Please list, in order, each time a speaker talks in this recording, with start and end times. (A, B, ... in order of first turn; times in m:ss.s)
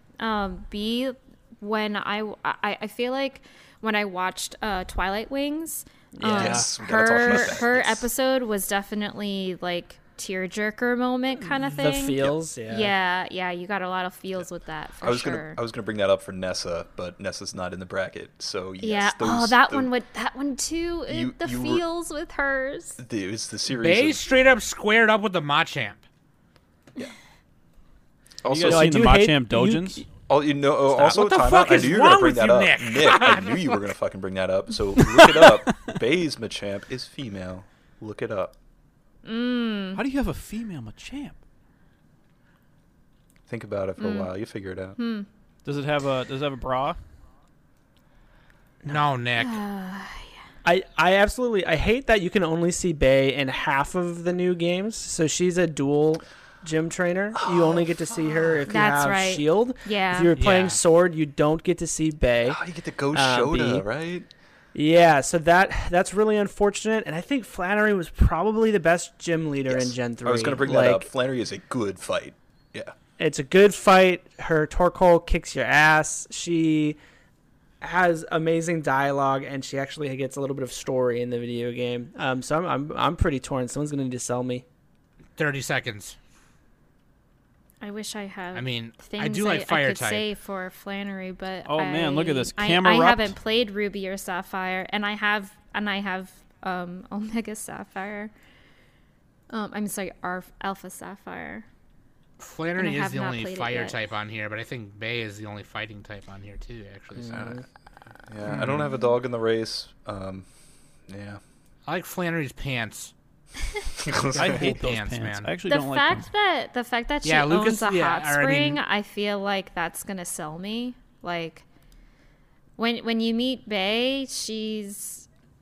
0:00.2-0:15.6 A
0:06.2-0:06.7 B
0:06.2-0:08.1 C
0:11.5-0:12.9 B
0:15.0-0:19.9 C
0:18.8-0:23.0 A
0:21.1-0:21.8 C
0:23.0-0:24.2 C
0:23.7-0:26.0 D
0:28.4-0:29.0 C
0:28.5-0:30.0 E
0:28.6-0:30.0 B
0:30.3-0:38.6 C
0:30.9-0:33.8 D
0:39.2-0:40.0 A
0:40.0-0:41.4 E
0:43.5-0:45.0 C
0:44.0-0:44.3 A
0:45.0-0:45.3 A
0:45.6-0:47.0 E
0:48.9-0:49.6 D
0:49.4-0:50.4 A
0:50.6-1:02.6 B
0:57.4-0:57.9 C
0:58.7-1:00.4 A
1:00.4-1:00.8 D
1:02.5-1:04.3 C
1:03.1-1:03.9 B
1:04.7-1:11.1 B
1:09.7-1:12.9 C
1:13.2-1:17.0 B
1:17.8-1:24.6 B
1:25.4-1:26.2 D
1:27.8-1:38.3 A
1:28.5-1:30.2 D
1:31.7-1:33.4 E
1:39.5-1:41.7 A
1:42.4-1:47.5 D
1:42.8-1:44.0 A
1:47.2-1:47.6 B
1:47.3-1:47.6 C
1:48.3-1:50.5 C
1:51.1-1:51.4 C
1:51.9-1:53.1 D
1:54.0-1:54.7 C
1:54.3-1:55.5 D
1:54.3-1:56.3 E
1:55.6-2:01.7 A
1:57.2-1:58.8 D
2:02.8-2:05.3 A